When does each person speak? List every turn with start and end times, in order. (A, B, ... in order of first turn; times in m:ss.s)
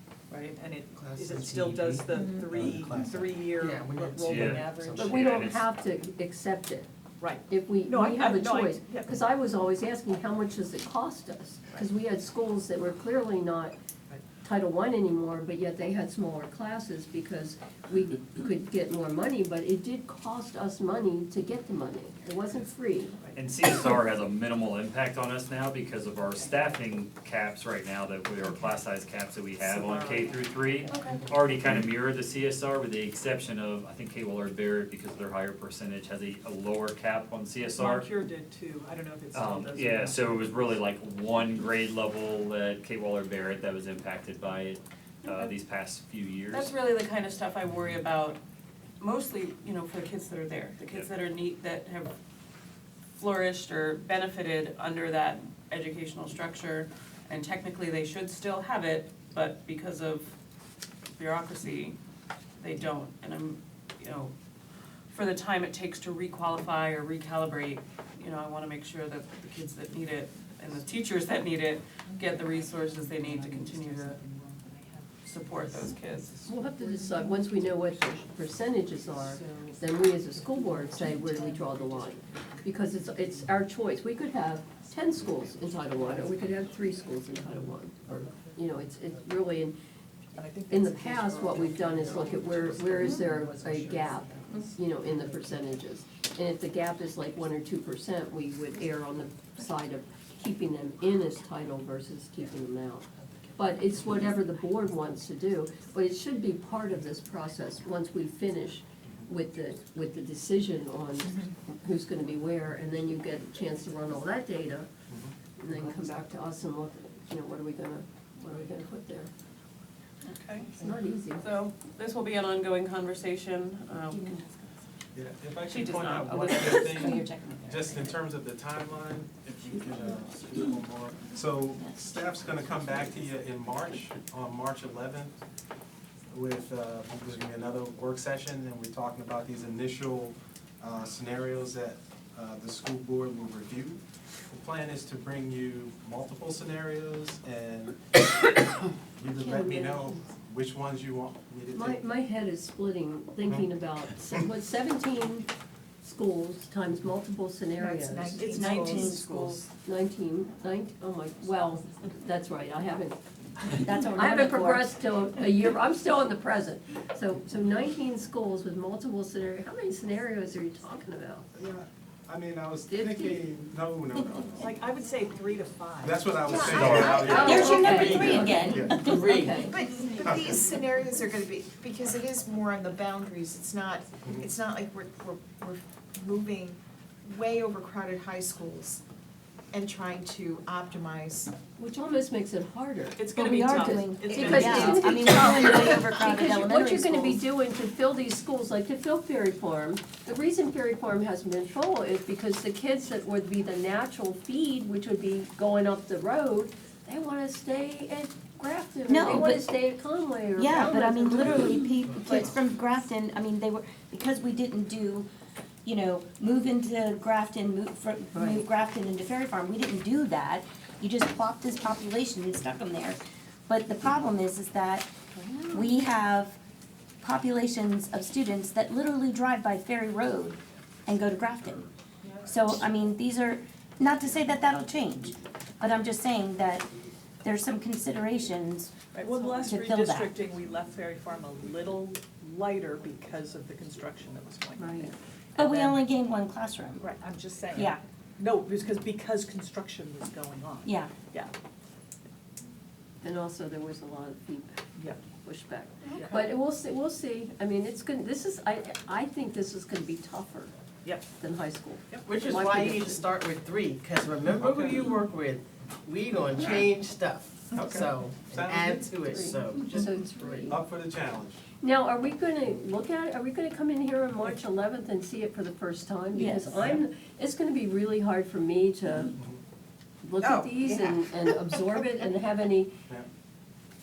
0:00.3-0:05.3 A
0:01.1-0:02.2 B
0:03.6-0:04.2 B
0:04.2-0:05.7 C
0:05.0-0:06.9 D
0:07.2-0:09.2 A
0:07.5-0:13.7 D
0:14.4-0:23.2 D
0:23.3-0:38.1 C
0:29.6-0:31.0 A
0:30.9-0:31.2 E
0:37.7-0:40.6 A
0:39.3-0:46.7 C
0:45.2-0:45.5 E
0:46.5-0:48.4 E
0:49.0-0:52.1 E
0:53.2-1:00.3 E
1:01.2-1:02.0 E
1:02.6-1:04.3 E
1:05.1-1:14.2 E
1:12.0-1:23.6 A
1:15.2-1:16.3 E
1:16.4-1:29.8 D
1:25.9-1:27.7 A
1:30.3-1:35.5 A
1:30.7-1:54.9 D
1:55.6-1:59.3 D
1:55.8-1:56.2 A
2:00.2-2:04.4 E
2:00.8-2:01.5 D
2:04.1-2:04.5 F
2:05.1-2:15.4 G
2:05.7-2:07.3 E
2:06.9-2:08.1 F
2:16.3-2:32.0 G
2:29.3-2:30.2 D
2:31.7-2:35.5 D
2:36.0-2:39.1 D
2:37.8-2:39.6 H
2:38.6-2:39.3 F
2:38.6-2:39.5 E
2:38.8-2:39.0 A
2:39.8-2:43.2 D
2:43.8-2:44.9 F
2:44.1-2:51.5 D
2:51.5-2:54.8 G
2:52.9-2:53.4 D
2:54.6-2:56.7 A
2:56.0-2:59.1 G
2:56.5-2:58.7 H
2:56.7-2:57.2 C
2:57.0-2:59.8 D
2:57.2-2:59.7 F
2:59.2-3:09.0 H
3:00.2-3:00.5 G
3:09.7-3:11.5 H
3:11.8-3:32.5 D
3:13.2-3:13.6 E
3:13.3-3:15.5 A
3:13.3-3:17.4 F
3:29.1-3:29.7 F
3:30.6-3:35.3 F
3:35.8-3:45.1 F
3:38.3-3:38.7 D
3:45.4-3:45.9 D
3:45.7-3:46.6 F
3:47.2-3:51.9 F
3:52.2-3:52.5 A
3:52.4-3:56.9 F
3:57.4-4:00.4 F
3:59.1-4:06.0 A
4:04.8-4:07.1 F
4:07.0-4:11.5 A
4:07.7-4:08.0 F
4:10.8-4:11.1 F
4:13.2-4:20.7 D
4:16.1-4:16.5 A
4:21.0-4:21.4 A
4:21.4-4:23.2 D
4:22.2-4:29.8 B
4:24.5-4:25.2 G
4:24.6-4:25.1 H
4:27.7-4:29.2 G
4:28.6-4:29.0 H
4:29.1-4:30.8 D
4:29.8-4:30.1 H
4:30.6-4:31.6 G
4:31.8-4:39.4 D
4:36.3-4:36.8 F
4:39.3-4:39.6 G
4:40.2-4:42.9 D
4:40.4-4:42.0 H